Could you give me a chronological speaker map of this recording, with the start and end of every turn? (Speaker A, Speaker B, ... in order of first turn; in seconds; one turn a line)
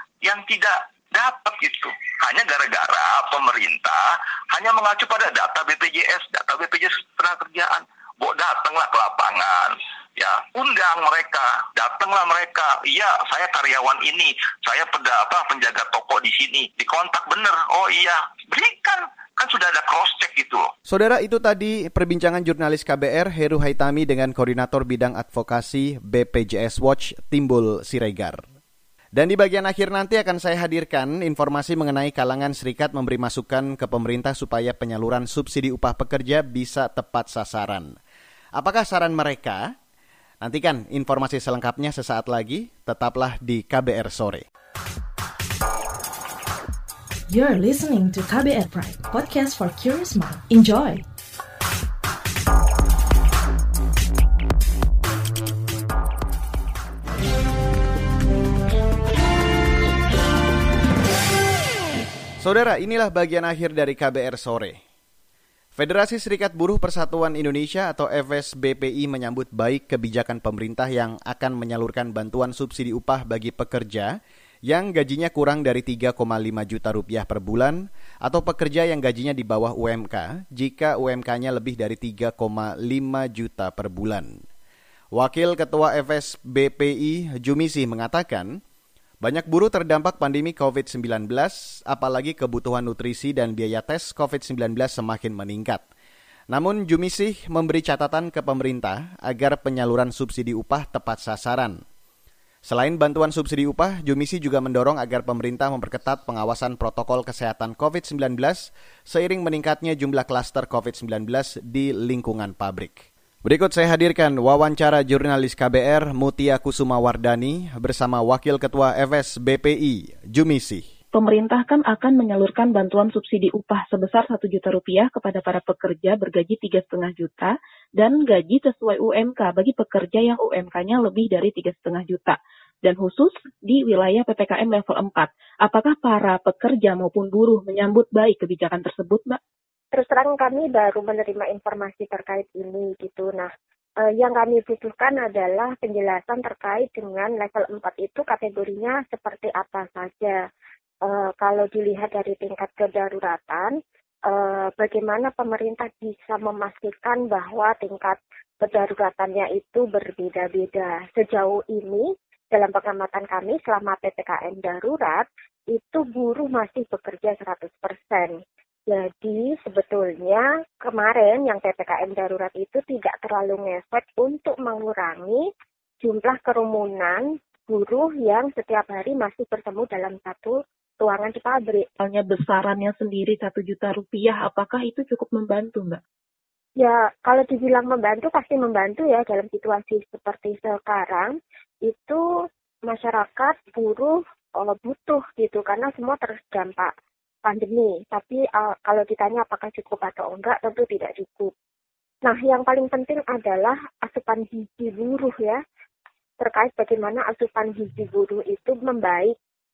Speaker A: 0.2-4.0
Speaker A: 4.5-20.7
Speaker B: 20.9-28.4
Speaker B: 29.1-38.0
Speaker B: 38.6-39.7
Speaker B: 40.4-44.4
Speaker C: 47.3-51.0
Speaker B: 62.4-64.8
Speaker B: 65.8-84.4
Speaker B: 85.1-88.6
Speaker B: 89.2-95.8
Speaker B: 96.5-101.8
Speaker B: 102.7-120.8
Speaker D: 121.1-139.4
Speaker E: 139.9-143.5
Speaker E: 144.0-150.4
Speaker E: 151.1-153.7
Speaker E: 154.3-175.5
Speaker E: 176.0-181.9
Speaker D: 182.0-186.0
Speaker E: 186.8-191.3
Speaker E: 191.9-192.2
Speaker E: 192.9-196.9
Speaker E: 197.5-201.5
Speaker E: 202.2-205.6
Speaker E: 206.4-209.3